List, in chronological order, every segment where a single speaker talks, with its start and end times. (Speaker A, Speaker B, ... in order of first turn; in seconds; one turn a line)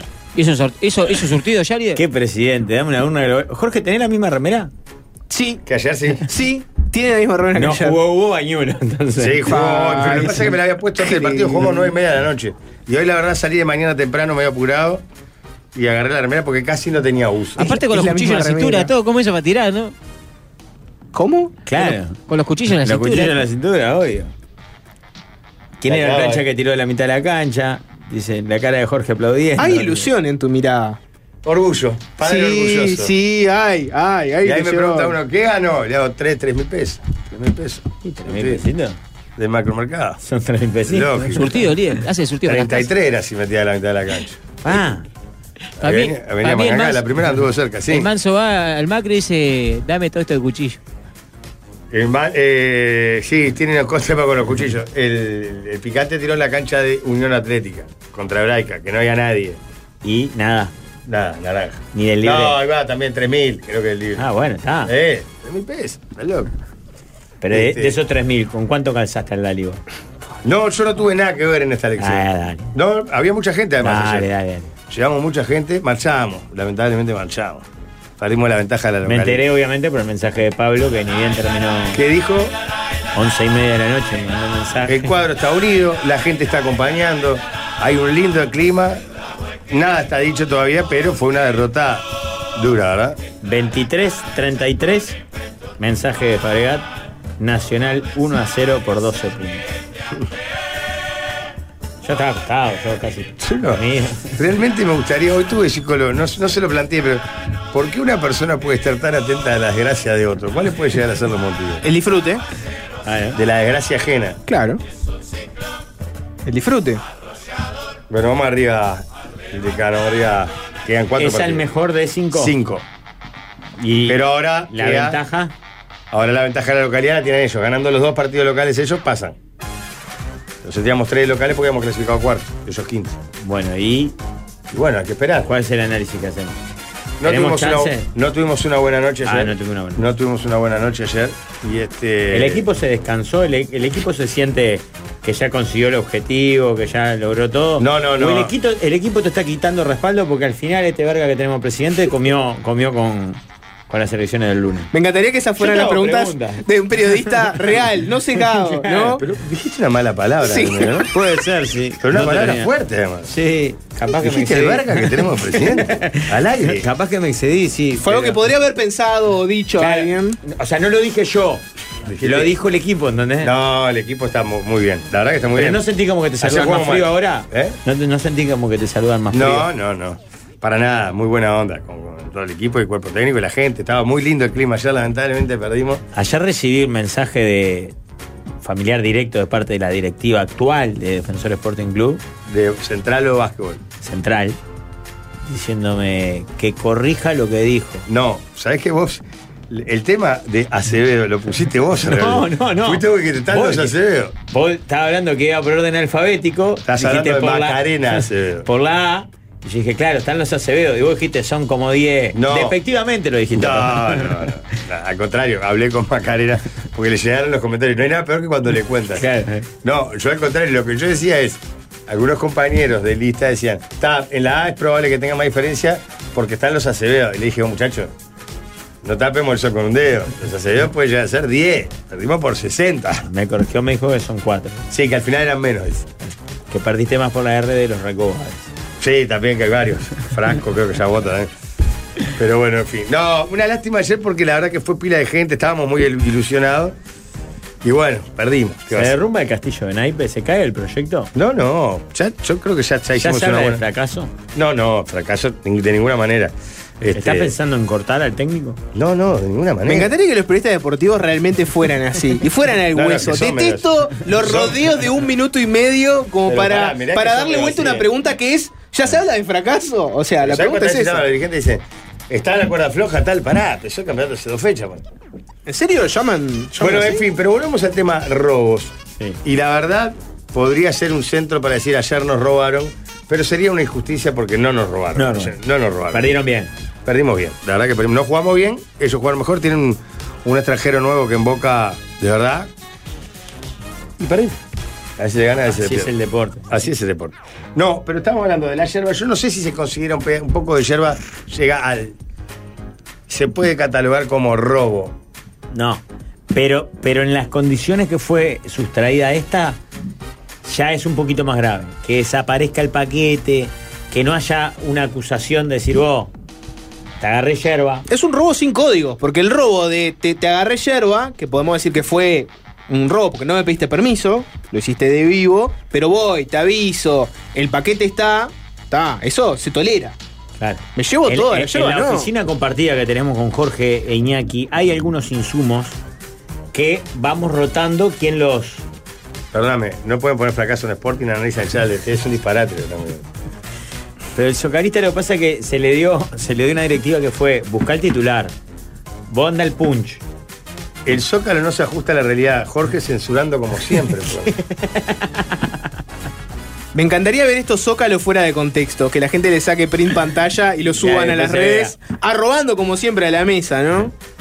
Speaker A: 0.3-2.0
Speaker B: 1.9-4.7
Speaker C: 5.3-5.6
Speaker D: 5.7-6.2
Speaker C: 6.2-8.0
Speaker B: 7.5-9.5
Speaker D: 9.2-15.0
Speaker C: 9.5-11.9
Speaker D: 15.7-17.7
Speaker A: 17.6-19.9
Speaker C: 17.6-18.9
Speaker C: 21.1-21.9
Speaker B: 21.7-22.2
Speaker A: 22.3-23.4
Speaker B: 22.8-24.3
Speaker B: 25.8-30.1
Speaker D: 25.9-26.4
Speaker C: 29.6-31.0
Speaker D: 31.4-33.1
Speaker C: 32.2-35.2
Speaker D: 34.4-38.6
Speaker B: 38.0-39.0
Speaker D: 39.4-40.2
Speaker B: 40.2-41.7
Speaker D: 40.9-41.5
Speaker A: 41.3-42.9
Speaker D: 42.4-44.4
Speaker B: 44.6-45.1
Speaker A: 45.8-47.1
Speaker D: 45.8-48.1
Speaker A: 47.9-50.8
Speaker D: 51.9-59.6
Speaker B: 60.0-60.7
Speaker D: 61.0-64.2
Speaker B: 61.9-62.6
Speaker B: 64.2-64.9
Speaker D: 64.8-66.5
Speaker B: 67.4-69.8
Speaker D: 67.5-67.9
Speaker D: 70.4-74.3
Speaker B: 72.0-72.7
Speaker B: 73.8-74.7
Speaker D: 74.9-77.7
Speaker D: 78.2-79.4
Speaker B: 79.0-82.0
Speaker D: 81.9-82.5
Speaker B: 83.1-85.1
Speaker D: 84.9-89.0
Speaker D: 89.7-93.2
Speaker B: 93.4-95.2
Speaker B: 95.8-96.9
Speaker B: 97.4-99.7
Speaker B: 102.0-104.4
Speaker D: 103.4-103.8
Speaker D: 104.3-111.8
Speaker C: 111.8-112.4
Speaker B: 113.0-113.4
Speaker D: 113.3-114.4
Speaker C: 114.5-114.8
Speaker C: 116.4-117.0
Speaker D: 118.1-121.7
Speaker B: 121.2-122.5
Speaker D: 122.3-122.8
Speaker B: 123.8-125.5
Speaker D: 124.1-125.2
Speaker D: 126.1-129.4
Speaker D: 130.6-133.2
Speaker B: 133.4-134.2
Speaker D: 134.7-135.5
Speaker B: 135.4-136.6
Speaker D: 137.2-142.6
Speaker B: 137.2-138.1
Speaker B: 139.2-140.1
Speaker B: 142.3-154.9
Speaker D: 147.8-148.5
Speaker C: 154.9-159.2
Speaker B: 155.6-156.6
Speaker B: 158.5-159.2
Speaker D: 159.2-161.1
Speaker C: 160.4-161.1
Speaker B: 161.1-162.7
Speaker D: 162.0-163.3
Speaker B: 163.2-168.4
Speaker D: 164.1-166.8
Speaker C: 168.0-170.4
Speaker B: 169.8-171.6
Speaker D: 172.1-172.5
Speaker B: 172.2-173.5
Speaker D: 173.4-175.8
Speaker B: 175.5-179.7
Speaker D: 176.4-177.8
Speaker D: 179.3-186.0
Speaker B: 186.1-187.9
Speaker B: 188.6-192.2
Speaker D: 192.5-193.8
Speaker B: 194.0-194.6
Speaker B: 195.4-198.0
Speaker D: 198.1-204.3
Speaker B: 202.0-203.9
Speaker B: 204.5-214.4
Speaker D: 206.8-208.7
Speaker D: 212.3-212.7
Speaker D: 213.5-219.3
Speaker B: 219.2-219.7
Speaker D: 219.8-228.1
Speaker D: 229.0-233.3
Speaker B: 233.2-234.8
Speaker D: 234.9-236.1
Speaker B: 236.7-238.7
Speaker D: 239.0-241.5
Speaker D: 242.3-246.9
Speaker D: 247.8-249.1
Speaker B: 248.9-251.3
Speaker D: 251.3-253.8
Speaker B: 253.2-254.3
Speaker D: 254.5-257.5
Speaker B: 257.1-258.8
Speaker D: 258.9-260.1
Speaker C: 259.9-271.2
Speaker D: 262.9-264.8
Speaker D: 266.4-268.1
Speaker D: 270.4-275.0
Speaker C: 275.6-277.2
Speaker D: 276.8-286.4
Speaker B: 285.1-285.6
Speaker B: 286.1-286.7
Speaker D: 287.1-292.7
Speaker D: 294.2-294.6
Speaker D: 295.2-296.1
Speaker B: 295.7-296.8
Speaker D: 296.7-302.1
Speaker D: 303.3-305.1
Speaker B: 305.7-309.8
Speaker B: 310.6-316.3
Speaker B: 317.2-318.0
Speaker C: 318.1-330.1
Speaker B: 330.6-336.0
Speaker C: 330.9-332.3
Speaker B: 336.7-338.9
Speaker D: 339.5-343.3
Speaker B: 344.3-348.5
Speaker B: 349.3-350.2
Speaker D: 351.1-354.5
Speaker B: 354.5-355.7
Speaker C: 356.9-364.1
Speaker B: 361.0-362.0